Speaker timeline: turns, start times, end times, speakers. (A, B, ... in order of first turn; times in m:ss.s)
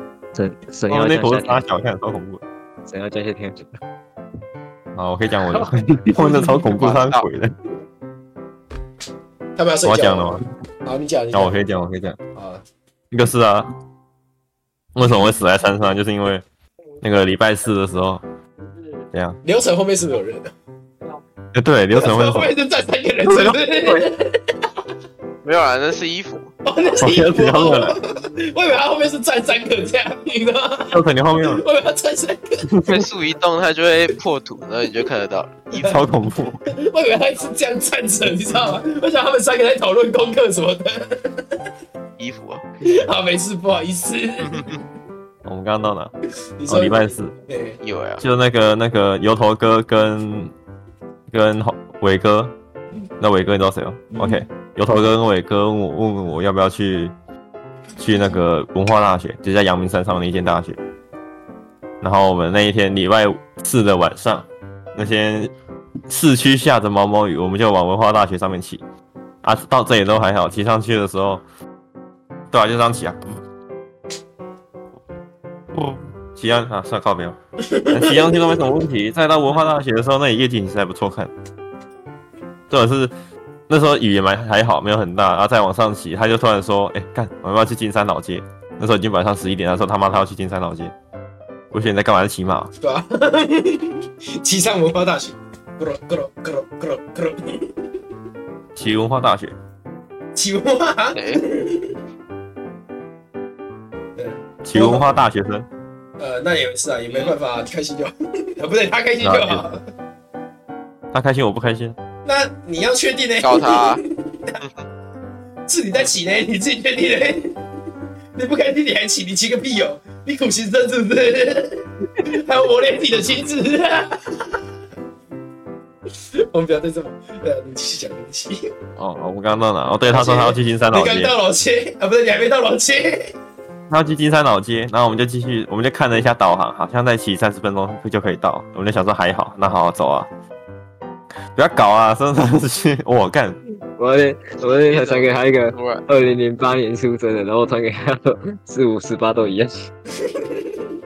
0:00.4-0:01.6 A
0:00.9-0:02.4 B
0:02.9-0:03.8 A
0:05.0-0:07.5 B
0:06.7-0:07.2 C
0:09.6-0:11.6 D
0:09.8-0:10.4 B
0:11.3-0:12.2 B
0:12.4-0:12.6 D
0:13.1-0:13.7 B
0:15.0-0:16.4 B
0:17.0-0:18.2 B
0:19.1-0:19.4 B
0:19.4-0:20.5 D
0:21.5-0:22.5 B
0:21.9-0:24.6 D
0:23.3-0:24.1 B
0:25.4-0:26.5 C
0:26.6-0:32.6 D
0:27.0-0:28.0 B
0:30.9-0:31.6 B
0:32.7-0:33.1 B
0:32.9-0:36.0 C
0:35.7-0:36.1 D
0:35.8-0:36.6 B
0:36.7-0:41.6 D
0:42.2-0:42.6 C
0:42.8-0:44.8 D
0:44.4-0:44.8 C
0:45.4-0:46.1 B
0:46.6-0:47.8 D
0:46.7-0:47.3 B
0:47.8-0:48.2 C
0:48.2-0:50.5 B
0:51.3-0:52.5 B
0:53.2-0:57.1 B
0:54.1-0:54.4 D
0:58.0-1:00.8 B
1:02.0-1:05.5 B
1:06.1-1:08.8 B
1:09.4-1:11.4 B
1:12.5-1:13.2 B
1:15.7-1:17.4 B
1:17.7-1:18.5 D
1:17.9-1:21.3 B
1:22.7-1:23.1 B
1:23.7-1:30.9 B
1:31.7-1:32.7 B
1:32.8-1:37.7 D
1:38.8-1:39.6 B
1:40.4-1:42.0 D
1:41.2-1:41.4 C
1:44.2-1:45.2 D
1:44.6-1:45.7 B
1:46.2-1:49.8 D
1:47.1-1:47.4 C
1:49.2-1:49.6 B
1:51.1-1:52.0 B
1:52.2-1:54.6 D
1:53.4-1:54.0 C
1:55.7-1:57.6 D
1:58.4-2:04.6 D
2:06.4-2:08.7 D
2:09.0-2:11.3 B
2:10.1-2:13.3 D
2:13.9-2:20.3 B
2:21.6-2:23.6 B
2:24.0-2:29.9 A
2:24.6-2:26.0 C
2:30.2-2:30.7 D